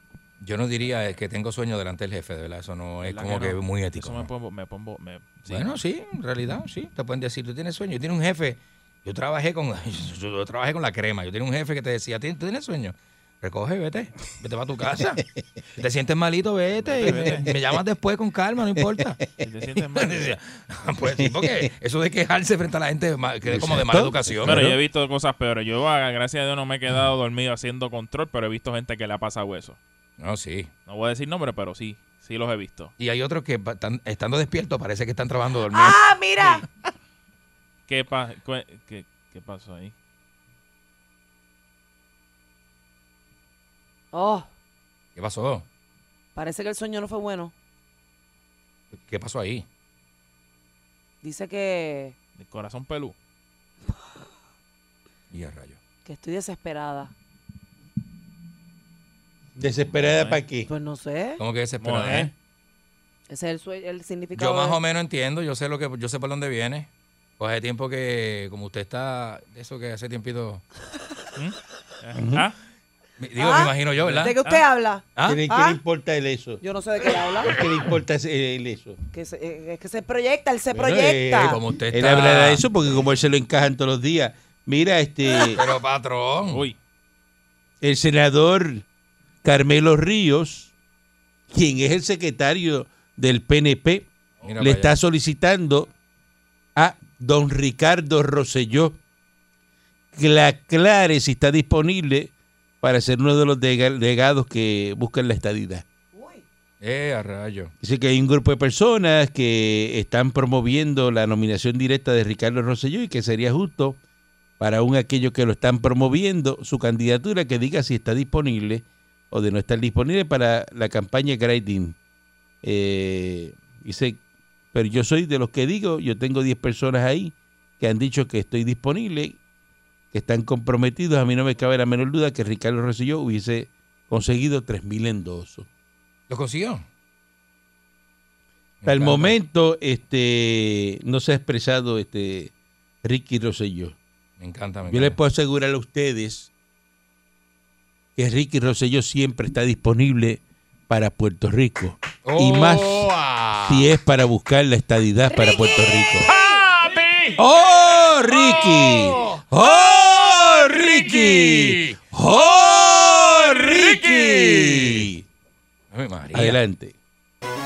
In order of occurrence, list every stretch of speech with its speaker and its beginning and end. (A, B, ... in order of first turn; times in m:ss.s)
0:00.4-0:04.3 A
0:03.0-0:05.7 B
0:05.5-0:15.2 A
0:15.8-0:19.2 A
0:16.8-0:17.5 B
0:17.0-0:17.6 C
0:18.8-0:19.1 C
0:19.4-0:20.3 B
0:20.0-0:24.6 A
0:21.1-0:21.7 C
0:23.5-0:24.8 C
0:24.4-0:29.8 B
0:30.2-0:30.7 A
0:30.9-0:32.9 B
0:33.0-0:36.0 A
0:35.7-0:36.6 D
0:37.9-0:39.9 B
0:44.1-0:44.5 D
0:45.2-0:45.6 A
0:46.4-0:47.5 D
0:48.9-0:49.6 A
0:51.2-0:52.2 D
0:52.4-0:53.2 B
0:55.3-0:55.8 A
0:56.0-0:57.1 D
0:59.6-1:00.7 C
1:00.1-1:00.4 B
1:00.7-1:01.4 D
1:01.4-1:02.3 A
1:01.8-1:02.3 B
1:02.0-1:02.3 C
1:03.3-1:04.8 D
1:04.4-1:06.9 A
1:07.4-1:10.6 A
1:11.4-1:12.5 B
1:12.2-1:12.4 C
1:13.2-1:14.4 A
1:13.4-1:15.8 D
1:14.1-1:14.6 B
1:15.2-1:16.6 C
1:16.6-1:17.5 D
1:17.4-1:19.0 C
1:19.1-1:21.6 D
1:20.7-1:25.6 C
1:21.4-1:22.6 A
1:25.4-1:26.6 A
1:26.5-1:26.8 B
1:27.8-1:28.8 C
1:29.4-1:30.7 C
1:31.5-1:35.9 C
1:34.4-1:34.9 A
1:36.8-1:39.0 C
1:40.1-1:42.3 C
1:42.8-1:45.8 C
1:46.1-1:46.4 D
1:46.8-1:47.7 A
1:47.8-1:54.0 C
1:54.6-2:02.0 C
2:02.6-2:04.2 C
2:04.7-2:09.4 C
2:10.1-2:15.7 C
2:16.3-2:16.8 A
2:18.8-2:19.4 A
2:18.9-2:22.5 C
2:23.0-2:24.0 C
2:24.4-2:25.2 A
2:24.9-2:26.5 C
2:28.2-2:33.1 C
2:32.2-2:33.9 A
2:33.7-2:36.3 C
2:35.3-2:36.6 D
2:36.3-2:37.4 A
2:37.4-2:45.2 C
2:38.3-2:39.4 A
2:40.5-2:42.0 A
2:43.4-2:45.1 A
2:45.9-2:46.6 A
2:46.3-2:47.0 C